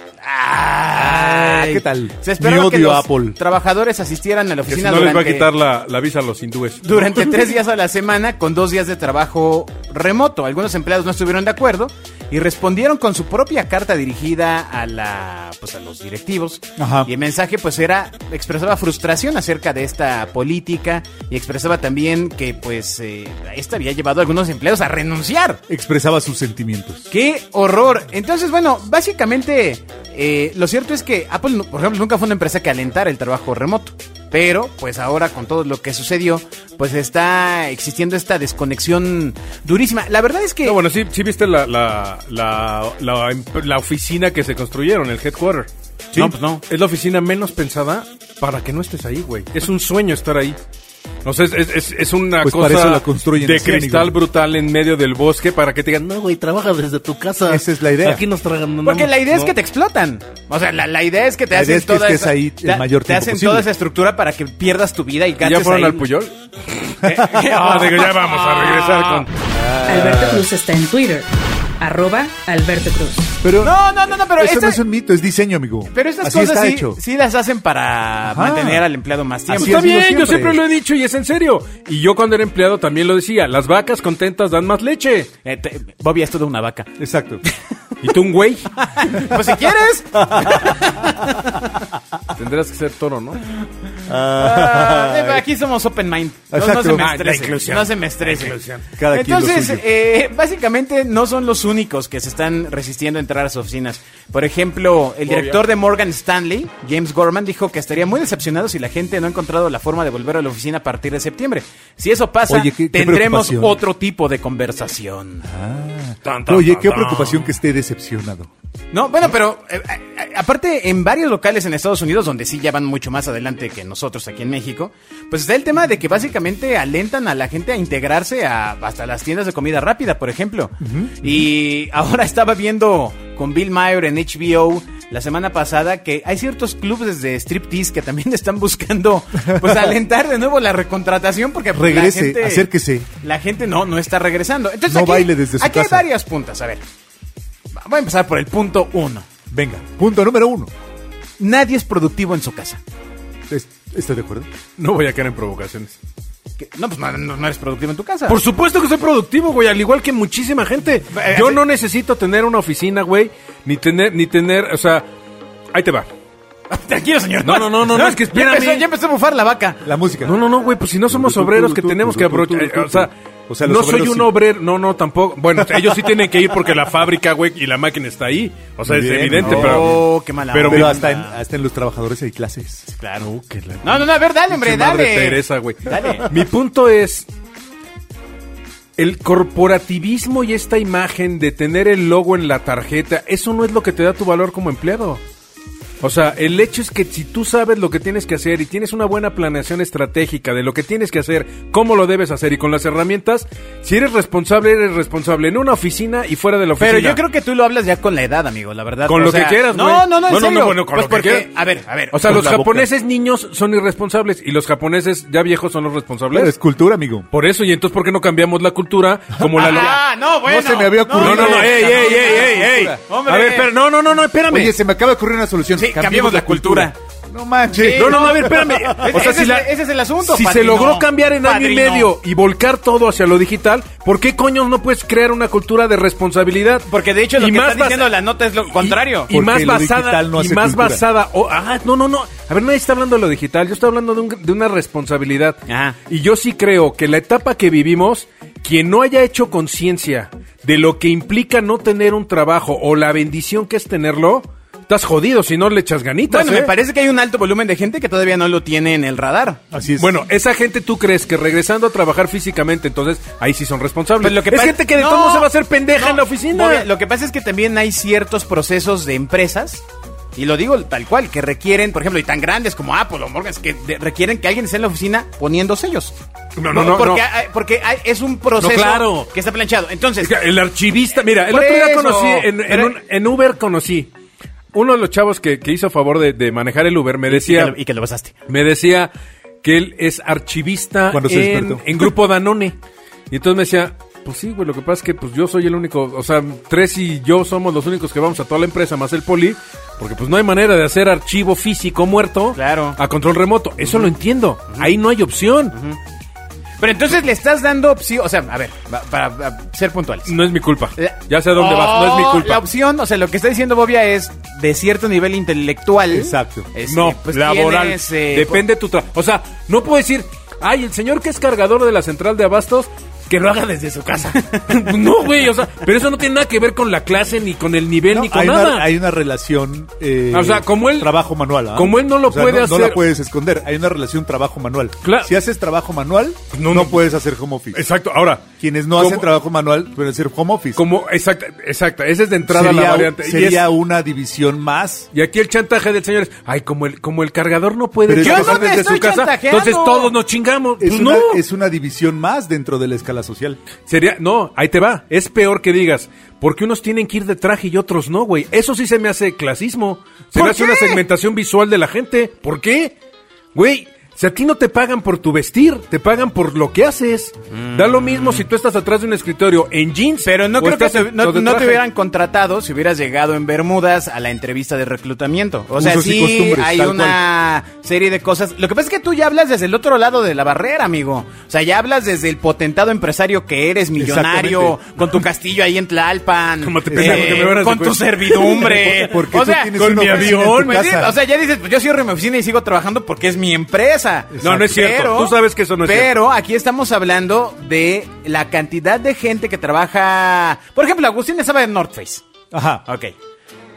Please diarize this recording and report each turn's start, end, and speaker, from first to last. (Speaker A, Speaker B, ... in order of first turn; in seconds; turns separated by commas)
Speaker A: 0.2-5.5, Speaker B: 0.9-3.4, Speaker C: 4.7-7.4, Speaker A: 6.8-25.6, Speaker B: 16.8-17.1, Speaker B: 25.7-27.1, Speaker A: 27.1-40.8, Speaker C: 40.6-50.6, Speaker A: 46.1-46.6, Speaker C: 51.2-59.5, Speaker B: 52.4-54.1, Speaker B: 57.5-58.2, Speaker A: 58.8-66.0, Speaker B: 61.5-63.7, Speaker C: 65.4-69.3, Speaker A: 67.0-69.3, Speaker B: 69.5-70.5, Speaker D: 69.8-71.3, Speaker D: 71.8-73.3, Speaker B: 73.4-73.8, Speaker A: 73.6-74.8, Speaker B: 74.3-77.0, Speaker A: 75.9-79.8, Speaker B: 78.3-78.8, Speaker C: 79.5-85.3, Speaker B: 79.5-80.6, Speaker A: 85.4-86.9, Speaker B: 87.0-87.4, Speaker C: 88.0-88.8, Speaker A: 88.8-91.7, Speaker C: 92.3-93.4, Speaker B: 94.1-95.4, Speaker A: 94.1-98.6, Speaker B: 96.5-97.1, Speaker C: 96.9-98.9, Speaker B: 99.0-99.8, Speaker A: 99.1-115.5, Speaker C: 105.2-105.6, Speaker B: 112.5-113.8, Speaker B: 115.5-118.5, Speaker C: 116.2-117.5, Speaker A: 118.9-142.7, Speaker B: 130.8-131.4, Speaker B: 139.5-139.9, Speaker B: 141.7-143.1, Speaker A: 143.2-146.8, Speaker B: 144.8-146.1, Speaker A: 147.8-149.2, Speaker B: 149.5-150.7, Speaker A: 151.4-152.8, Speaker B: 153.5-154.5, Speaker C: 154.8-155.9, Speaker A: 156.6-158.4, Speaker C: 158.3-165.1, Speaker A: 161.1-161.6, Speaker C: 165.7-166.1, Speaker A: 166.7-169.8, Speaker C: 167.4-168.8, Speaker B: 169.8-170.4, Speaker C: 170.2-181.0, Speaker B: 171.1-174.3, Speaker B: 178.9-180.0, Speaker A: 179.3-181.4, Speaker B: 180.6-182.9, Speaker A: 182.9-183.3, Speaker C: 183.2-187.3, Speaker A: 183.8-186.4, Speaker C: 189.0-195.2, Speaker C: 196.0-207.2, Speaker A: 206.8-212.3, Speaker C: 209.1-211.5, Speaker C: 212.1-216.5, Speaker B: 212.2-212.9, Speaker B: 216.3-217.3, Speaker C: 217.3-220.0, Speaker A: 219.5-223.7, Speaker B: 220.4-223.0, Speaker C: 221.2-224.7, Speaker B: 224.5-229.2, Speaker A: 225.7-226.9, Speaker A: 227.7-232.1, Speaker C: 227.9-238.1, Speaker A: 236.9-239.3, Speaker C: 238.7-256.7, Speaker B: 239.3-241.0, Speaker A: 245.7-246.0, Speaker A: 256.3-259.6, Speaker B: 259.7-260.1, Speaker C: 260.0-266.9, Speaker A: 264.2-269.8, Speaker A: 270.3-276.1, Speaker C: 276.6-277.2, Speaker A: 276.7-280.3, Speaker C: 278.6-279.3, Speaker C: 280.2-284.1, Speaker A: 281.3-282.9, Speaker C: 284.7-287.7, Speaker A: 287.3-288.3, Speaker C: 288.5-289.1, Speaker C: 289.6-292.8, Speaker B: 291.1-291.9, Speaker C: 293.3-305.7, Speaker A: 302.5-303.0, Speaker A: 303.8-304.1, Speaker A: 305.7-306.0, Speaker A: 306.8-310.3, Speaker C: 310.2-312.6, Speaker A: 311.0-318.6, Speaker B: 316.1-316.7, Speaker C: 316.8-328.9, Speaker A: 324.4-324.8, Speaker B: 328.1-337.8, Speaker C: 330.3-331.1, Speaker C: 331.7-333.0, Speaker C: 335.0-335.3, Speaker C: 336.5-337.0, Speaker C: 337.7-339.3, Speaker B: 338.6-340.8, Speaker C: 340.8-343.7, Speaker B: 342.5-345.1, Speaker C: 345.1-351.4, Speaker B: 348.1-349.1, Speaker A: 348.2-350.1, Speaker B: 350.8-353.6, Speaker C: 353.9-362.9, Speaker A: 360.3-361.0, Speaker C: 363.5-371.8, Speaker A: 367.6-368.4, Speaker A: 370.2-402.2, Speaker B: 375.7-377.2, Speaker B: 383.9-384.8, Speaker C: 386.6-388.9, Speaker B: 386.9-387.5, Speaker B: 388.6-391.1, Speaker C: 389.7-390.9, Speaker B: 394.3-394.7, Speaker C: 394.4-396.2, Speaker B: 402.5-402.8, Speaker A: 402.9-403.1